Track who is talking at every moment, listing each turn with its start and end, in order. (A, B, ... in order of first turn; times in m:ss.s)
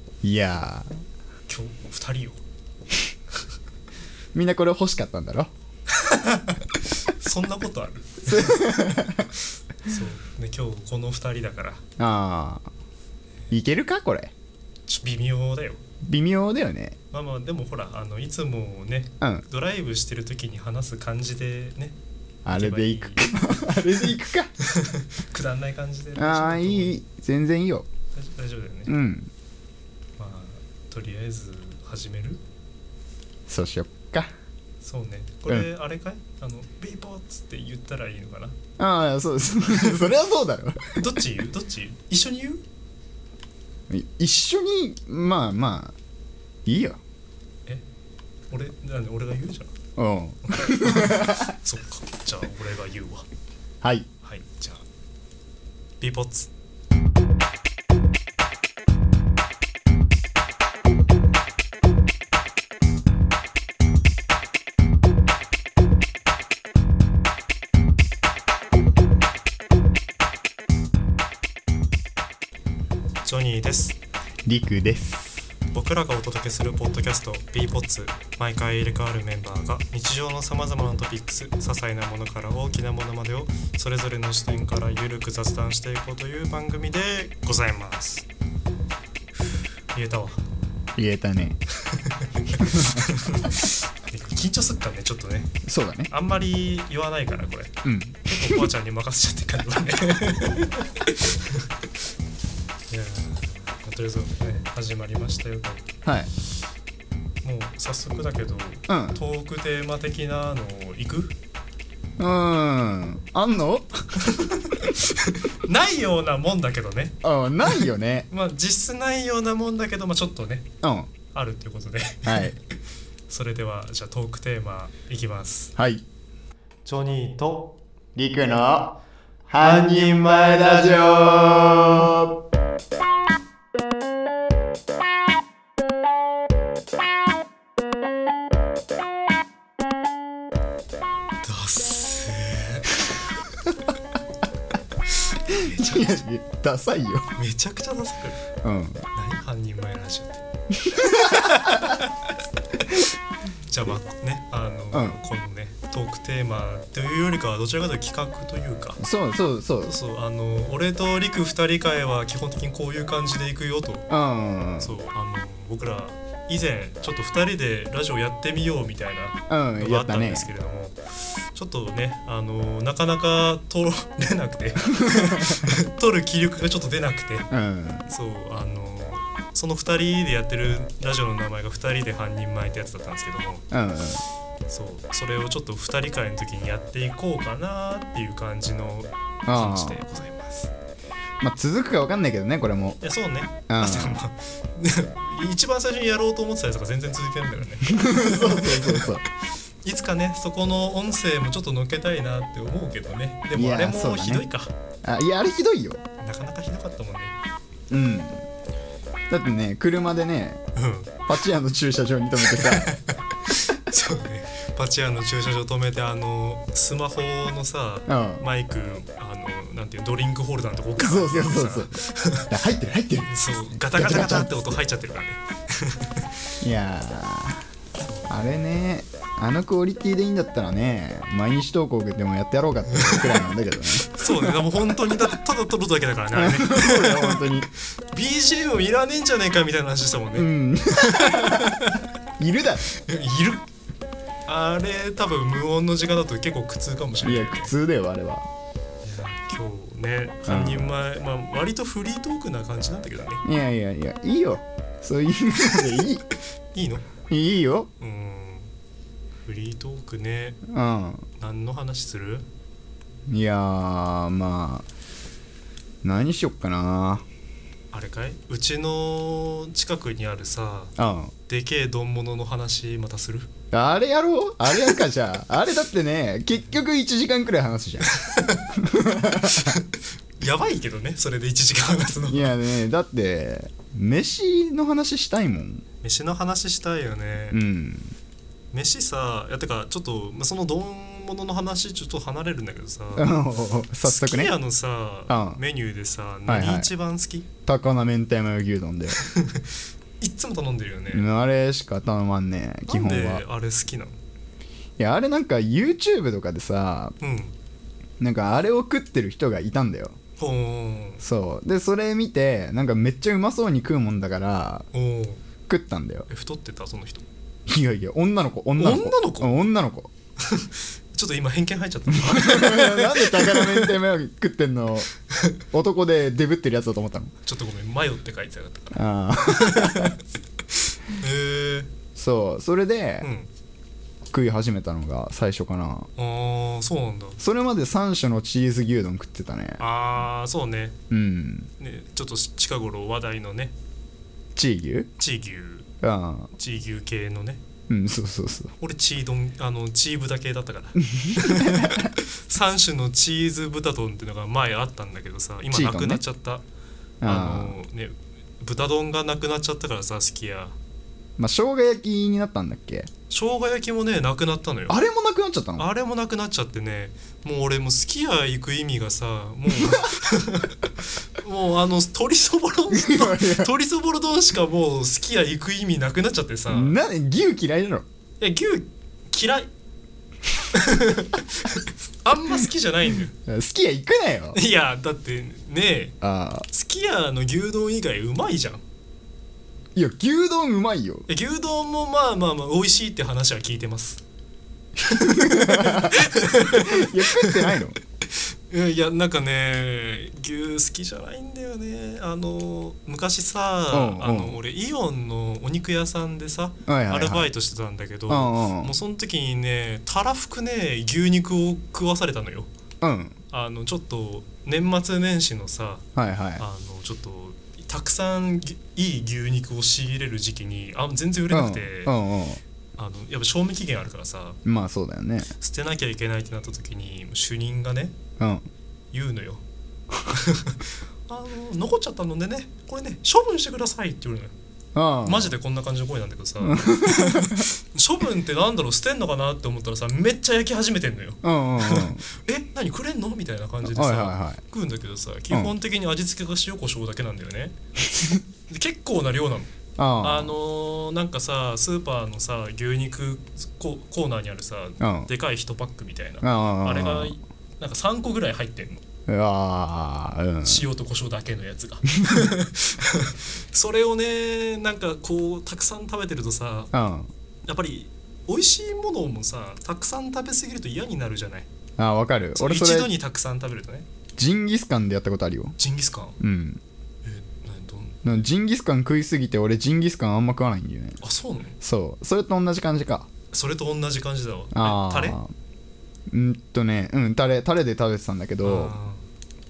0:00.2-0:00.9 A
0:01.5-0:02.4 B
0:04.3-0:05.5 A
0:05.9-0:08.8 B
0:08.3-0:09.3 A
0:09.8-0:11.8 B
0:12.0-0:12.6 A
0:13.5-0:14.3 A
0:14.9-0:15.8 B
0:16.0-0:17.0 A
0:17.1-0:22.0 B
0:22.4-0:24.5 A
0:22.5-0:24.0 B
0:24.6-0:27.0 B
0:26.2-0:27.9 A
0:28.1-0:28.9 B
0:28.9-0:29.3 A
0:30.2-0:32.4 B
0:33.5-0:34.3 A
0:34.8-0:38.6 B
0:38.8-0:41.0 A
0:41.0-0:42.6 B
0:43.9-0:46.0 A
0:46.7-0:47.0 A
0:48.5-0:49.7 B
0:50.0-0:51.5 A
0:50.5-0:53.3 B
0:53.8-0:54.1 A
0:54.2-0:54.8 B
0:56.0-0:56.5 B
1:13.2-1:14.0 B
1:14.5-1:15.4 A
1:15.7-1:28.3 B
1:29.9-1:30.4 B
1:31.0-1:31.6 A
1:31.8-1:35.5 B
1:32.6-1:33.0 A
1:35.6-1:36.1 A
1:36.1-1:37.7 B
1:37.8-1:38.7 A
1:38.2-1:41.7 B
1:42.9-1:45.9 B
1:46.0-1:46.3 A
1:47.4-1:51.4 B
1:48.9-1:49.2 A
1:52.2-1:54.4 A
1:54.2-2:00.7 B
1:57.2-1:58.3 A
2:00.8-2:01.1 A
2:01.3-2:02.6 B
2:02.2-2:02.5 A
2:03.3-2:05.7 B
2:05.8-2:06.0 A
2:06.8-2:07.8 B
2:08.2-2:09.0 A
2:09.5-2:12.3 A
2:09.6-2:10.2 B
2:21.4-2:23.0 B
2:25.2-2:26.2 B
2:25.5-2:27.3 A
2:27.4-2:28.4 B
2:28.6-2:29.0 A
2:29.1-2:30.4 B
2:30.8-2:32.0 A
2:31.0-2:32.1 B
2:33.7-2:39.0 B
2:34.9-2:35.2 A
2:39.0-2:39.9 A
2:39.8-2:44.1 B
2:44.1-2:45.0 A
2:44.8-2:51.0 B
2:49.5-2:50.5 A
2:51.5-2:57.5 B
2:55.0-2:55.7 A
2:57.5-2:58.1 A
2:58.1-3:03.6 B
3:03.7-3:04.2 A
3:04.7-3:10.7 B
3:09.5-3:10.0 A
3:11.4-3:13.0 A
3:13.0-3:19.1 B
3:13.7-3:14.2 A
3:17.9-3:19.2 A
3:19.8-3:24.7 B
3:23.5-3:24.5 A
3:25.0-3:26.0 A
3:26.2-3:27.4 B
3:27.9-3:28.4 A
3:29.3-3:30.6 A
3:30.8-3:31.1 B
3:31.3-3:32.9 A
3:32.4-3:42.5 B
3:38.1-3:38.4 A
3:41.0-3:42.0 A
3:42.5-3:43.3 A
3:43.3-3:46.2 B
3:43.9-3:44.5 A
3:46.6-3:47.6 A
3:48.0-3:48.6 B
3:48.3-3:54.6 A
3:52.9-3:53.4 B
3:54.0-4:02.0 B
3:56.4-3:57.7 A
4:00.3-4:01.8 A
4:02.4-4:02.9 A
4:02.9-4:03.7 B
4:04.5-4:07.7 B
4:07.2-4:08.5 A
4:09.0-4:13.4 B
4:10.5-4:10.9 A
4:13.4-4:16.2 A
4:16.7-4:17.1 B
4:17.3-4:17.9 A
4:18.0-4:18.7 B
4:19.4-4:20.6 B
4:20.7-4:21.3 A
4:21.4-4:22.4 B
4:23.3-4:24.9 A
4:26.0-4:27.2 A
4:27.9-4:30.9 B
4:31.0-4:31.3 A
4:31.5-4:33.5 B
4:33.7-4:38.1 A
4:38.1-4:38.7 B
4:38.7-4:39.8 A
4:39.4-4:42.6 B
4:42.3-4:45.8 A
4:46.0-4:47.6 B
4:47.5-4:48.2 A
4:48.7-4:53.4 B
4:53.2-4:54.6 A
4:54.0-4:57.5 B
4:55.3-4:55.6 A
4:56.5-4:56.9 A
4:57.6-4:59.2 A
4:59.2-5:01.3 B
5:01.1-5:03.4 A
5:02.9-5:04.2 B
5:05.0-5:07.2 A
5:07.2-5:07.6 B
5:08.2-5:10.2 A
5:10.4-5:11.2 B
5:11.2-5:14.9 A
5:14.9-5:15.4 B
5:15.7-5:16.3 A
5:16.3-5:17.2 B
5:17.7-5:20.1 A
5:18.8-5:19.6 B
5:20.4-5:24.0 B
5:22.2-5:25.1 A
5:25.7-5:27.3 A
5:27.4-5:30.2 B
5:28.9-5:30.1 A
5:30.7-5:31.9 B
5:32.2-5:33.3 A
5:33.2-5:33.5 B
5:34.3-5:36.1 A
5:36.2-5:37.4 B
5:37.4-5:39.8 A
5:39.8-5:41.0 B
5:41.1-5:41.7 A
5:41.8-5:43.7 B
5:44.6-5:45.1 A
5:45.2-5:45.9 B
5:46.0-5:46.5 A
5:46.6-5:47.6 B
5:47.9-5:48.7 A
5:48.8-5:56.6 B
5:51.0-5:52.1 A
5:55.7-5:56.2 A
5:57.2-5:57.8 A
5:57.2-6:00.8 B
6:01.4-6:03.1 A
6:03.3-6:05.0 B
6:04.9-6:05.9 A
6:05.8-6:17.0 B
6:09.7-6:10.2 A
6:12.9-6:13.7 A
6:16.7-6:18.0 A
6:18.4-6:19.7 B
6:20.7-6:23.3 B
6:23.4-6:24.6 A
6:24.5-6:26.2 B
6:26.2-6:26.7 A
6:26.7-6:28.8 B
6:30.0-6:31.3 A
6:31.3-6:34.2 B
6:35.0-6:38.0 A
6:35.1-6:37.8 B
6:38.3-6:52.7 B
6:43.9-6:44.6 A
6:46.9-6:47.5 A
6:48.3-6:49.0 A
6:53.0-6:53.4 A
6:53.5-6:56.0 B
6:56.2-6:56.6 A
6:56.6-7:02.1 B
7:01.5-7:02.6 A
7:03.0-7:04.6 B
7:04.6-7:05.5 A
7:05.6-7:08.1 B
7:08.4-7:08.7 A
7:09.1-7:09.6 B
7:10.3-7:14.5 B
7:15.0-7:15.6 A
7:15.2-7:29.7 B
7:16.6-7:17.6 A
7:21.4-7:22.2 A
7:23.9-7:24.6 A
7:30.0-7:30.6 A
7:30.2-7:39.0 B
7:35.0-7:35.3 A
7:36.4-7:37.4 A
7:39.3-7:40.9 A
7:40.6-7:46.9 B
7:42.2-7:42.5 A
7:46.9-7:47.3 A
7:47.7-7:51.7 B
7:52.0-7:53.1 A
7:52.6-7:54.1 B
7:54.4-7:55.8 A
7:55.8-7:56.4 B
7:56.4-7:56.8 A
7:57.2-7:58.4 B
7:58.2-8:01.2 A
8:01.2-8:01.8 B
8:01.8-8:03.3 A
8:03.5-8:05.4 B
8:04.7-8:05.5 A
8:06.3-8:08.9 A
8:08.6-8:09.2 B